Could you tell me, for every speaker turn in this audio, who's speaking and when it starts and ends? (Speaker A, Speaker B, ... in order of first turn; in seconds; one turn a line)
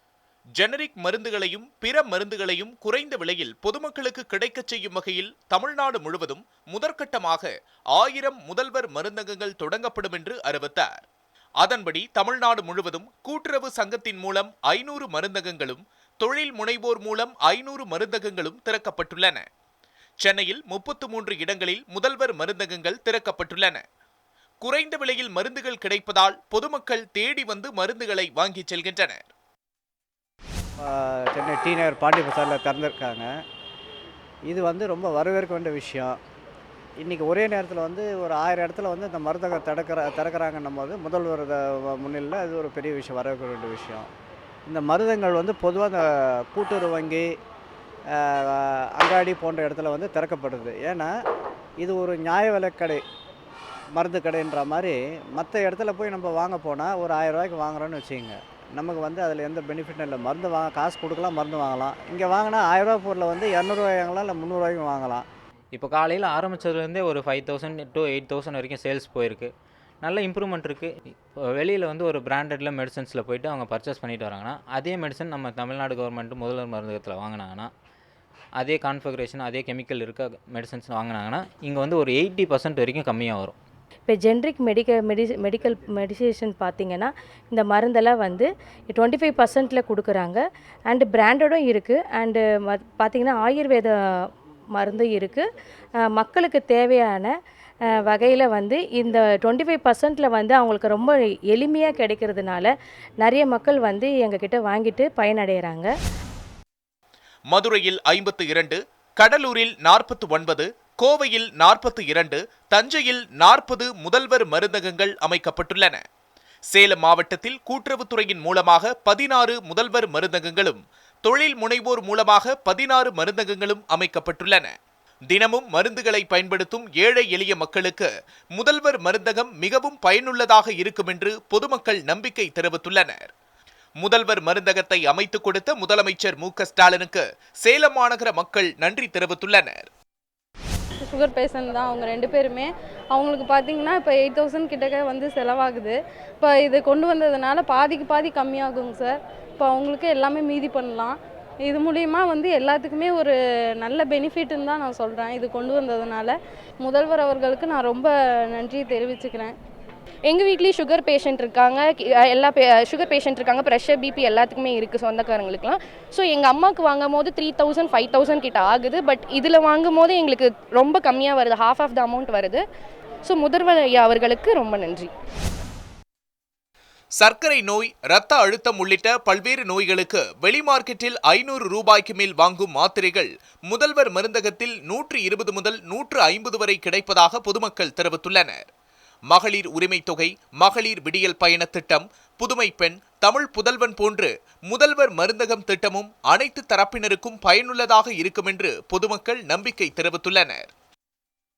Speaker A: 0.6-11.1
Speaker A: 11.6-19.4
Speaker A: 20.2-23.8
Speaker A: 24.6-29.3
Speaker B: 30.8-33.3
Speaker B: 34.5-36.1
Speaker B: 37.0-44.1
Speaker B: 44.7-46.0
Speaker B: 46.5-47.2
Speaker B: 48.5-51.1
Speaker B: 51.8-53.0
Speaker B: 54.0-65.2
Speaker C: 65.7-70.9
Speaker C: 71.5-77.7
Speaker C: 78.6-83.5
Speaker D: 84.1-93.9
Speaker D: 94.8-95.4
Speaker D: 96.1-97.3
Speaker D: 98.0-105.9
Speaker A: 107.5-116.0
Speaker A: 116.7-124.7
Speaker A: 125.3-133.3
Speaker A: 134.0-139.9
Speaker E: 141.0-159.5
Speaker F: 160.3-172.6
Speaker F: 173.2-175.1
Speaker A: 177.2-188.7
Speaker A: 189.3-200.7